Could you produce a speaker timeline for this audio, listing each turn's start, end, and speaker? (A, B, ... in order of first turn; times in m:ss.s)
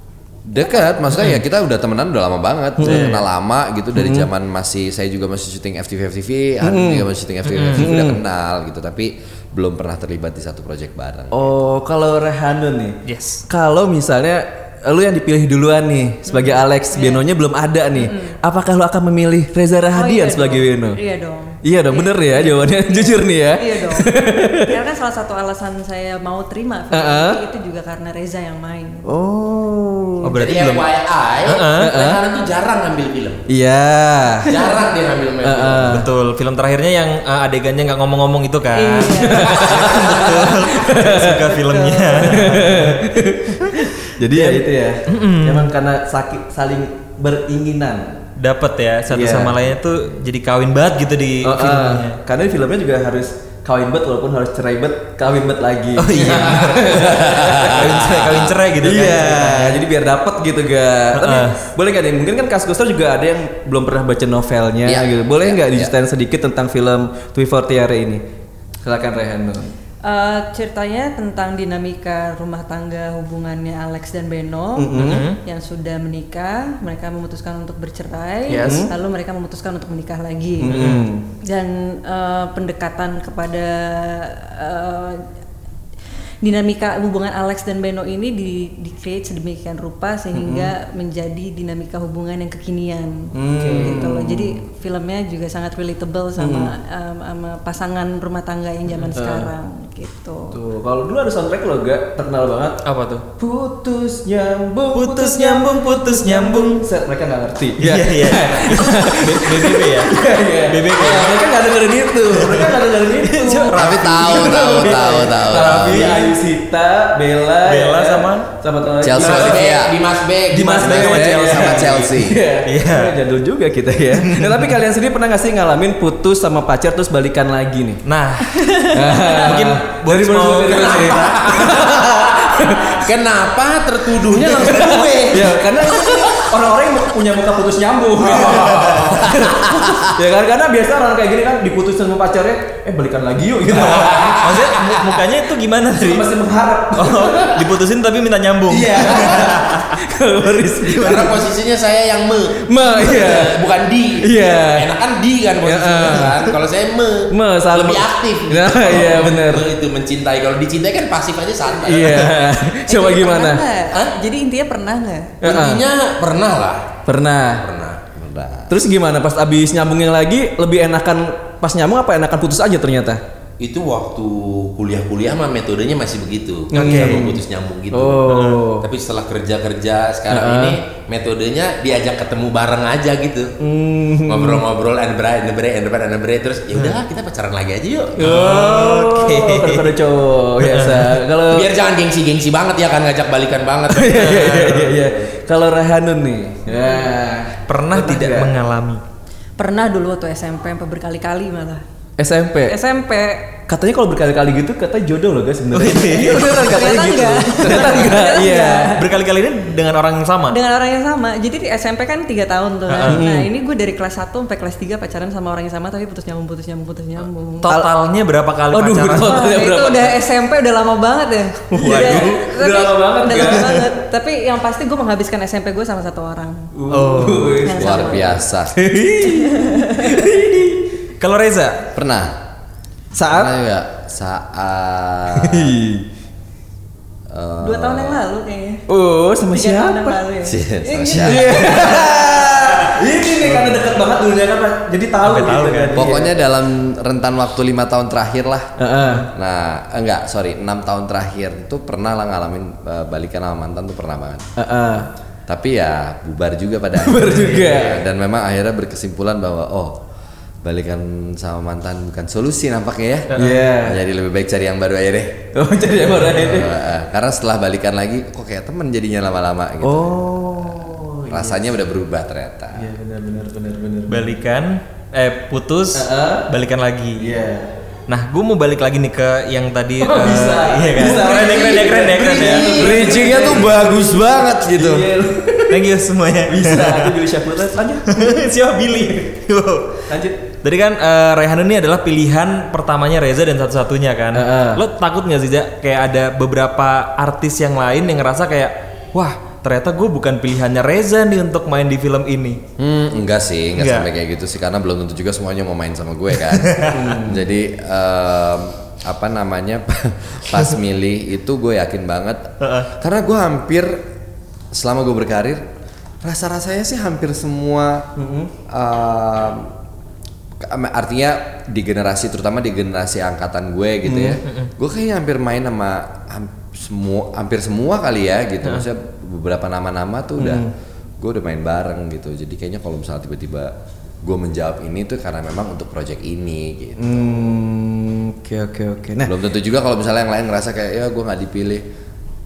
0:00.4-0:11.5 A
0:02.8-0:03.2 B
0:03.9-0:04.3 B
0:06.6-0:07.1 B
0:07.4-0:07.8 C
0:07.7-0:08.2 B
0:11.3-0:21.0 B
0:13.0-0:13.4 C
0:16.3-0:17.2 D
0:17.9-0:18.3 D
0:19.9-0:29.0 D
0:21.6-0:24.8 B
0:26.9-0:27.4 B
0:29.0-0:30.4 B
0:30.2-0:30.9 C
0:30.4-0:33.4 E
0:31.4-0:32.0 C
0:31.8-0:32.2 B
0:33.5-0:34.5 B
0:34.4-0:35.9 E
0:35.4-0:36.1 B
0:35.8-0:43.1 C
0:38.7-0:42.5 D
0:39.2-0:41.5 B
0:42.2-0:48.2 B
0:44.3-0:45.7 C
0:48.4-0:52.2 C
0:49.1-0:49.6 B
0:51.4-1:08.2 B
0:56.0-0:59.8 C
0:56.2-0:57.0 E
1:01.1-1:01.6 C
1:04.8-1:05.9 A
1:08.8-1:09.7 B
1:10.0-1:25.2 D
1:14.8-1:15.3 B
1:15.0-1:15.4 C
1:18.5-1:18.9 B
1:20.6-1:21.3 B
1:20.7-1:21.1 C
1:26.4-1:40.6 D
1:30.3-1:30.7 B
1:33.3-1:34.6 B
1:33.6-1:34.1 C
1:36.4-1:36.7 B
1:39.1-1:39.5 B
1:40.5-1:42.8 B
1:42.8-1:43.2 C
1:43.4-1:59.6 B
1:44.9-1:46.8 C
1:47.8-1:51.5 C
1:52.3-1:56.4 C
1:53.7-1:56.1 A
1:57.6-1:58.5 C
1:59.0-2:00.0 A
1:59.2-2:01.3 E
2:00.5-2:08.0 B
2:00.7-2:02.1 C
2:01.0-2:02.4 A
2:02.6-2:03.1 C
2:04.2-2:04.8 C
2:08.0-2:11.7 C
2:08.9-2:13.0 B
2:10.7-2:16.2 E
2:14.4-2:24.7 B
2:18.3-2:19.5 E
2:23.8-2:24.7 E
2:24.0-2:26.3 C
2:25.9-2:27.6 B
2:27.0-2:30.0 C
2:28.7-2:31.4 B
2:30.9-2:42.4 E
2:31.0-2:31.3 C
2:32.6-2:33.6 B
2:34.2-2:34.9 B
2:35.6-2:36.5 B
2:37.3-2:39.7 B
2:41.8-2:43.6 B
2:42.9-2:45.4 D
2:45.4-2:45.8 B
2:45.4-2:46.9 E
2:47.1-2:47.7 B
2:47.5-2:48.0 E
2:48.2-2:48.8 A
2:48.7-2:53.2 B
2:53.6-3:03.5 E
2:56.7-2:57.4 B
2:56.7-2:57.3 C
2:57.9-2:58.9 B
2:58.3-2:58.6 C
3:00.3-3:00.8 B
3:03.6-3:04.6 B
3:04.2-3:08.6 E
3:08.2-3:11.7 B
3:08.2-3:10.0 C
3:10.6-3:11.2 C
3:11.4-3:14.1 E
3:13.9-3:18.5 B
3:14.1-3:15.0 C
3:17.7-3:19.0 C
3:19.6-3:21.8 D
3:22.2-3:22.8 B
3:22.7-3:23.6 D
3:23.7-3:29.0 B
3:25.7-3:26.8 C
3:26.3-3:29.1 D
3:27.8-3:30.6 C
3:30.5-3:37.7 D
3:32.9-3:33.3 C
3:33.1-3:33.5 B
3:37.6-3:39.6 C
3:37.7-3:37.9 B
3:38.7-3:40.2 B
3:39.2-3:46.7 D
3:41.7-3:43.8 B
3:41.8-3:42.4 C
3:43.4-3:43.8 C
3:46.7-3:50.9 B
3:46.9-3:47.6 C
3:47.6-3:48.4 D
3:47.8-3:48.7 A
3:49.2-3:50.3 D
3:51.2-3:51.8 C
3:51.9-3:52.4 A
3:53.1-3:53.5 B
3:53.3-3:55.8 A
3:55.4-3:56.0 B
3:57.3-3:58.2 A
3:57.6-3:58.8 D
3:58.9-4:00.2 B
3:59.5-4:02.7 D
4:00.4-4:01.7 A
4:01.2-4:06.3 B
4:03.4-4:03.8 C
4:05.2-4:06.0 C
4:05.9-4:08.7 A
4:08.8-4:09.3 B
4:09.3-4:14.4 A
4:14.6-4:15.1 B
4:15.5-4:20.0 A
4:17.0-4:18.0 B
4:17.4-4:17.7 C
4:20.6-4:32.9 A
4:23.3-4:23.6 C
4:23.3-4:24.0 B
4:25.5-4:26.7 B
4:29.8-4:31.7 B
4:32.7-4:34.3 B
4:34.1-4:37.4 C
4:35.9-4:36.5 B
4:37.2-4:37.7 B
4:38.1-4:42.9 C
4:40.0-4:45.9 B
4:42.2-4:43.3 E
4:42.8-4:45.1 A
4:45.7-4:47.2 C
4:46.5-4:48.4 B
4:48.1-4:50.0 C
4:50.1-4:50.4 B
4:50.6-5:02.6 C
4:54.3-4:54.8 B
5:02.8-5:14.1 A
5:03.8-5:04.1 C
5:06.7-5:06.9 C
5:06.9-5:07.4 B
5:12.6-5:12.9 C
5:14.7-5:15.7 A
5:16.2-5:18.1 A
5:18.2-5:18.5 B
5:18.7-5:19.7 A
5:20.6-5:30.7 A
5:24.0-5:24.4 B
5:30.4-5:30.7 B
5:31.2-5:37.2 A
5:37.0-5:39.3 B
5:39.2-5:41.8 A